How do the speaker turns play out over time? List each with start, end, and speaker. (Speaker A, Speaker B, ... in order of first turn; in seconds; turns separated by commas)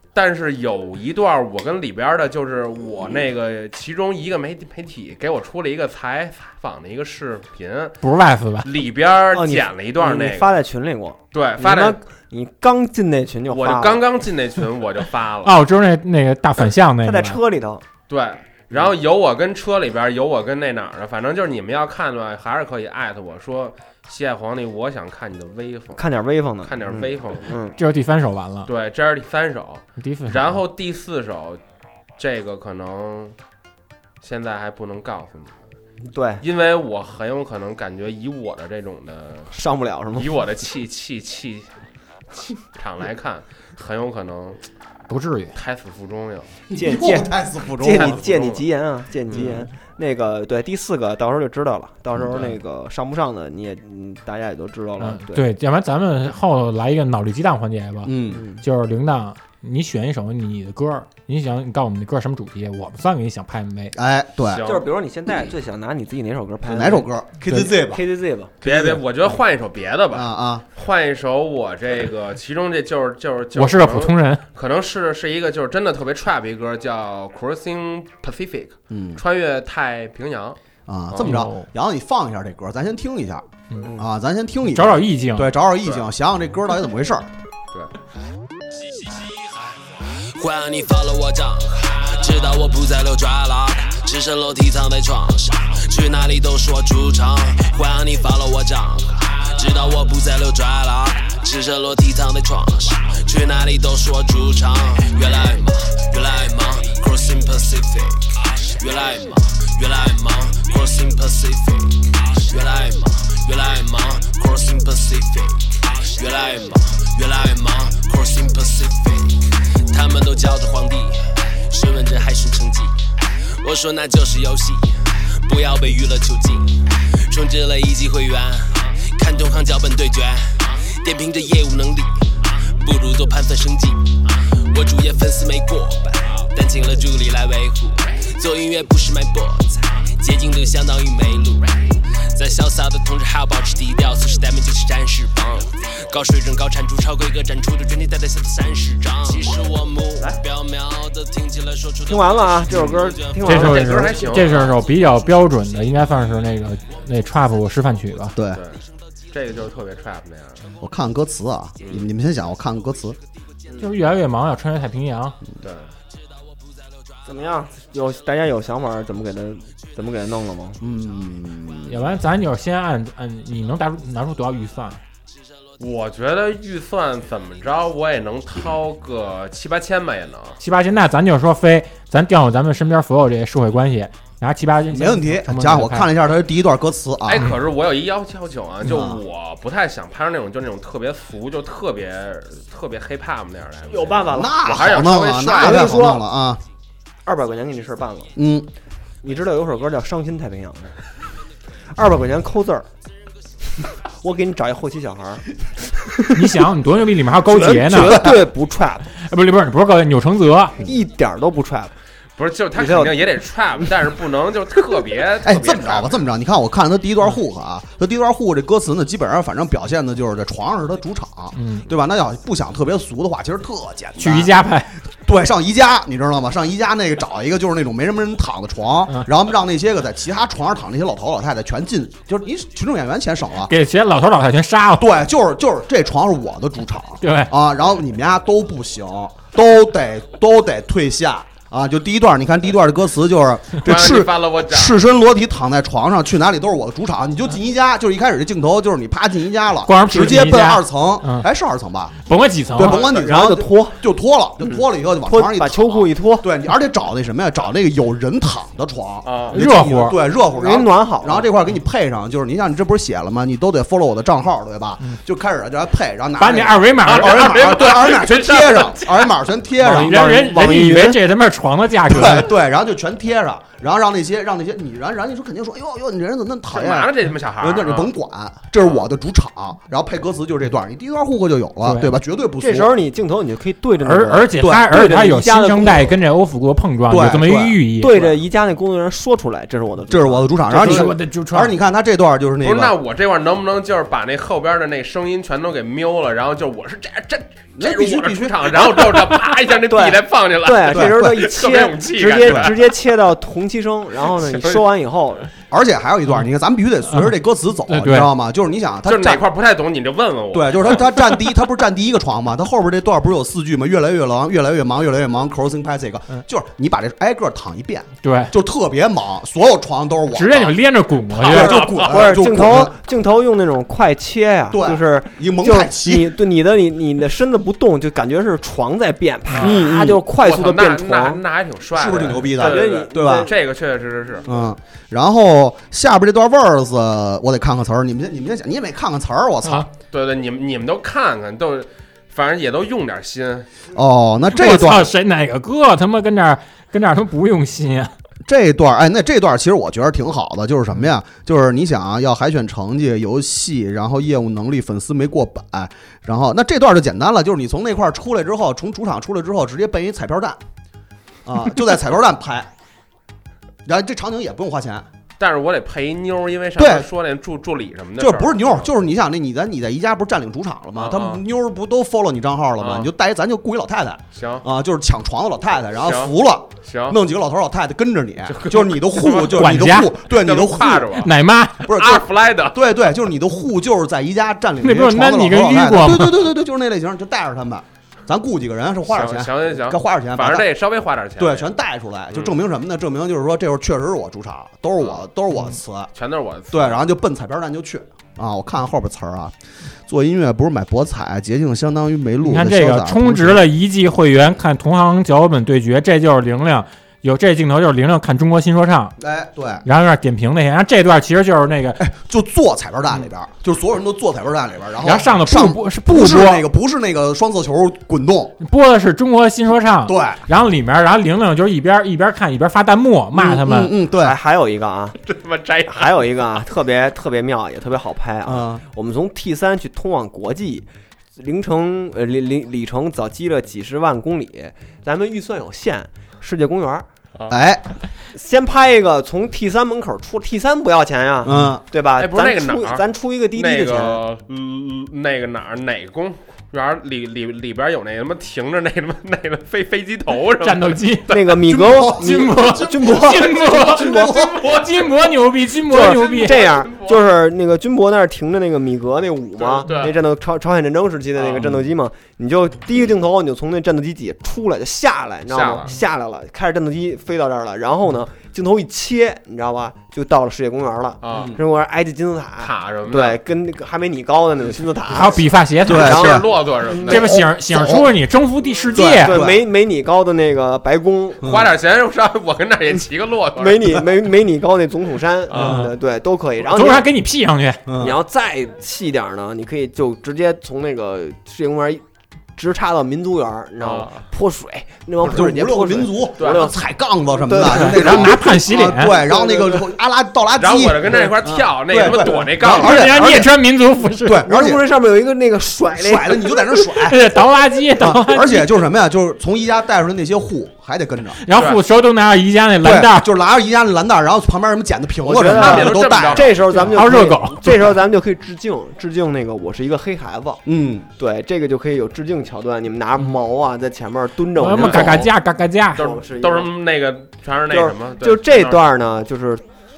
Speaker A: 0.1-8.0, Speaker B: 8.0-8.7, Speaker A: 8.6-10.5, Speaker C: 9.3-14.0, Speaker A: 11.3-12.0, Speaker A: 13.5-15.6, Speaker B: 15.4-17.4, Speaker C: 17.0-17.8, Speaker A: 18.1-26.0, Speaker C: 25.9-27.8, Speaker A: 26.6-27.5, Speaker B: 27.8-28.7, Speaker A: 28.6-31.6, Speaker B: 30.0-30.6, Speaker A: 32.2-33.3, Speaker A: 34.2-35.6, Speaker C: 36.1-36.4, Speaker A: 36.4-39.5, Speaker C: 39.5-40.3, Speaker A: 40.1-41.7, Speaker A: 42.5-44.6, Speaker B: 45.1-45.5, Speaker A: 45.5-46.5, Speaker D: 46.7-48.2, Speaker C: 46.7-55.5, Speaker A: 47.8-48.6, Speaker B: 55.0-64.0, Speaker D: 58.0-58.6, Speaker D: 63.9-64.6, Speaker A: 64.4-64.8, Speaker C: 64.6-68.5, Speaker D: 66.7-68.0, Speaker D: 68.6-69.0, Speaker A: 68.6-80.6, Speaker D: 70.1-70.6, Speaker B: 73.5-74.4, Speaker D: 78.9-79.2, Speaker D: 80.9-87.3, Speaker A: 81.1-81.4, Speaker B: 81.2-81.7, Speaker B: 84.6-85.6, Speaker A: 85.8-86.1, Speaker E: 88.9-155.3, Speaker C: 152.1-154.2, Speaker B: 153.4-158.4, Speaker A: 153.5-154.8, Speaker D: 158.3-158.6, Speaker A: 158.5-160.7, Speaker D: 160.8-163.2, Speaker A: 161.8-162.1, Speaker B: 163.8-165.4, Speaker A: 165.6-165.9, Speaker E: 166.5-167.3, Speaker C: 167.2-170.8, Speaker D: 170.8-172.1, Speaker B: 171.9-175.0, Speaker A: 175.8-180.6, Speaker B: 180.6-186.1, Speaker D: 184.9-187.5, Speaker A: 187.3-196.1, Speaker B: 187.4-187.6, Speaker D: 188.8-189.2, Speaker C: 193.9-194.7, Speaker D: 194.3-196.6, Speaker C: 195.4-196.2, Speaker C: 197.2-198.3, Speaker D: 198.3-198.7, Speaker C: 199.2-200.9, Speaker C: 201.9-202.9, Speaker C: 204.1-205.4, Speaker C: 206.0-206.4, Speaker B: 206.3-208.4, Speaker C: 207.4-209.1, Speaker D: 208.1-208.4, Speaker B: 209.2-210.8, Speaker C: 210.8-211.9, Speaker A: 212.4-216.3, Speaker C: 212.8-213.2, Speaker D: 215.4-224.6, Speaker B: 221.5-221.9, Speaker B: 224.2-224.9, Speaker D: 225.2-233.7, Speaker B: 233.6-235.2, Speaker D: 235.0-252.1, Speaker B: 237.2-237.5, Speaker A: 243.8-245.0, Speaker B: 249.8-251.5, Speaker B: 252.2-253.1, Speaker D: 252.7-270.3, Speaker C: 252.8-254.0, Speaker C: 254.6-256.5, Speaker A: 259.2-259.6, Speaker B: 259.5-260.2, Speaker C: 260.5-261.4, Speaker B: 266.4-267.7, Speaker A: 267.1-269.4, Speaker C: 269.8-271.2, Speaker B: 269.8-272.5, Speaker D: 272.1-282.9, Speaker A: 276.7-278.1, Speaker A: 278.8-279.1, Speaker B: 281.8-282.2, Speaker C: 282.6-286.1, Speaker B: 284.0-288.4, Speaker D: 284.6-284.9, Speaker D: 287.1-287.8, Speaker C: 288.0-291.1, Speaker D: 290.1-292.9, Speaker B: 290.7-291.8, Speaker A: 292.6-302.8, Speaker D: 297.8-299.3, Speaker C: 299.9-305.5, Speaker D: 300.9-301.3, Speaker D: 302.4-302.7, Speaker A: 304.3-304.8, Speaker D: 305.7-309.4, Speaker B: 307.1-308.3, Speaker A: 309.1-311.2, Speaker D: 310.5-320.8, Speaker B: 318.2-318.5, Speaker B: 320.3-322.2, Speaker D: 321.4-322.9, Speaker A: 321.5-322.2, Speaker C: 321.9-331.4, Speaker D: 324.7-326.4, Speaker A: 329.5-329.9, Speaker D: 329.6-330.2, Speaker A: 330.4-334.5, Speaker D: 331.9-333.5, Speaker C: 332.6-333.5, Speaker D: 334.5-339.9, Speaker B: 339.6-339.9, Speaker A: 340.1-343.7, Speaker D: 343.9-345.1, Speaker B: 344.5-348.1, Speaker D: 348.4-360.6, Speaker D: 361.4-362.7, Speaker D: 363.8-365.1, Speaker A: 365.4-368.9, Speaker D: 366.8-367.1, Speaker D: 368.2-381.1, Speaker A: 370.9-371.4, Speaker A: 372.8-373.1, Speaker A: 374.3-374.6, Speaker A: 376.0-377.2, Speaker A: 378.5-382.8, Speaker B: 379.5-380.1, Speaker B: 381.1-381.9, Speaker D: 381.9-390.6, Speaker B: 384.8-386.5, Speaker A: 389.1-391.7, Speaker D: 391.4-396.1, Speaker A: 392.3-392.6, Speaker A: 396.1-397.0, Speaker D: 396.7-399.5, Speaker D: 400.1-403.6, Speaker B: 402.4-409.1, Speaker D: 409.2-409.8, Speaker B: 409.8-412.0, Speaker D: 412.0-418.5, Speaker B: 415.0-416.7, Speaker B: 418.6-423.9, Speaker D: 420.1-420.4, Speaker D: 423.3-424.4, Speaker C: 424.2-425.2, Speaker A: 425.2-426.4, Speaker C: 425.9-437.1, Speaker D: 428.4-428.8, Speaker D: 437.5-437.8, Speaker C: 438.3-444.2, Speaker D: 441.4-441.8, Speaker A: 442.2-451.5, Speaker B: 450.6-451.4, Speaker C: 451.3-454.3, Speaker D: 451.7-454.6, Speaker B: 452.1-456.7, Speaker A: 453.6-455.4, Speaker C: 455.9-475.4, Speaker A: 455.9-457.2, Speaker A: 459.6-460.1, Speaker A: 461.4-461.8, Speaker A: 465.5-465.9, Speaker A: 471.2-471.6, Speaker D: 471.3-471.6, Speaker A: 472.6-473.4, Speaker B: 475.1-476.3, Speaker D: 475.9-476.5, Speaker C: 476.0-477.1, Speaker A: 476.0-477.3, Speaker B: 477.1-479.4, Speaker D: 477.1-478.1, Speaker D: 478.9-479.6, Speaker C: 479.2-481.4, Speaker D: 481.4-481.7, Speaker A: 481.4-484.0, Speaker C: 483.6-487.1, Speaker A: 485.5-485.8, Speaker B: 485.5-485.9, Speaker B: 486.6-487.8, Speaker D: 487.9-488.2, Speaker C: 488.0-492.0, Speaker C: 492.6-496.8, Speaker A: 493.8-494.2, Speaker D: 495.2-503.5, Speaker A: 496.4-496.7, Speaker C: 497.4-498.3, Speaker B: 497.6-499.2, Speaker C: 499.1-499.9, Speaker A: 500.6-503.4, Speaker B: 502.6-504.5, Speaker D: 504.2-504.8, Speaker C: 504.4-506.6, Speaker D: 505.9-507.2, Speaker B: 506.9-508.8, Speaker D: 508.0-511.4, Speaker B: 511.4-513.3, Speaker A: 511.5-511.8, Speaker D: 512.8-516.9, Speaker C: 515.2-520.6, Speaker A: 515.5-516.6, Speaker B: 516.9-518.0, Speaker D: 520.6-521.1, Speaker C: 521.2-525.3, Speaker B: 524.5-526.1, Speaker A: 524.7-525.3, Speaker C: 525.9-526.7, Speaker A: 526.0-528.8, Speaker C: 527.7-529.6